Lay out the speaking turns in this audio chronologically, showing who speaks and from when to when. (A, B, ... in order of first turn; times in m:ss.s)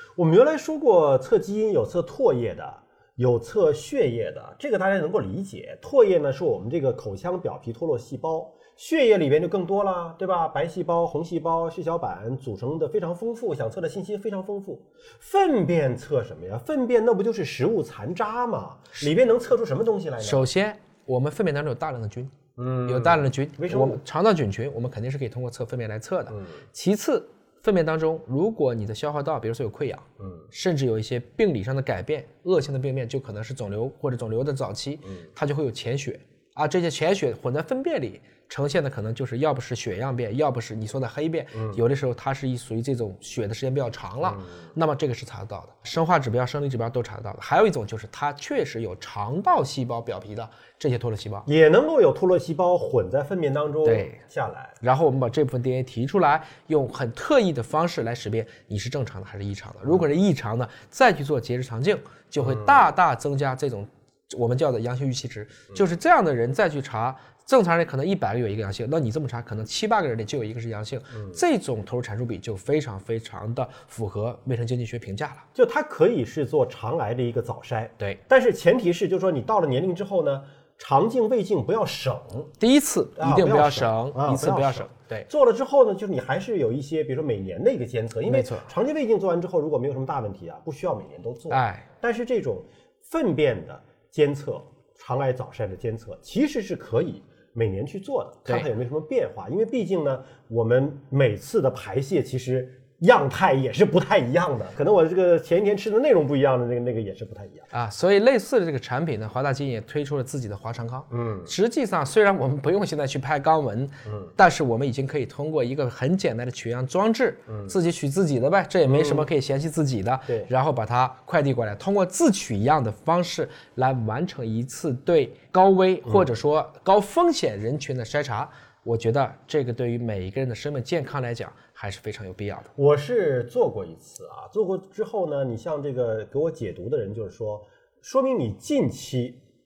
0:00.2-0:20.5 A
0:20.2-0:22.3 B
0:22.6-0:24.0 A
0:22.8-0:51.5 B
0:30.2-0:30.4 A
0:51.4-0:54.7 A
0:53.8-0:54.2 B
0:54.8-1:15.4 B
1:02.4-1:02.9 A
1:15.5-1:22.5 A
1:22.6-1:25.3 B
1:23.2-1:47.7 A
1:28.2-1:28.7 B
1:31.5-1:31.8 B
1:47.7-2:12.7 B
1:51.1-1:51.5 A
1:58.8-1:59.3 A
2:12.8-2:19.4 A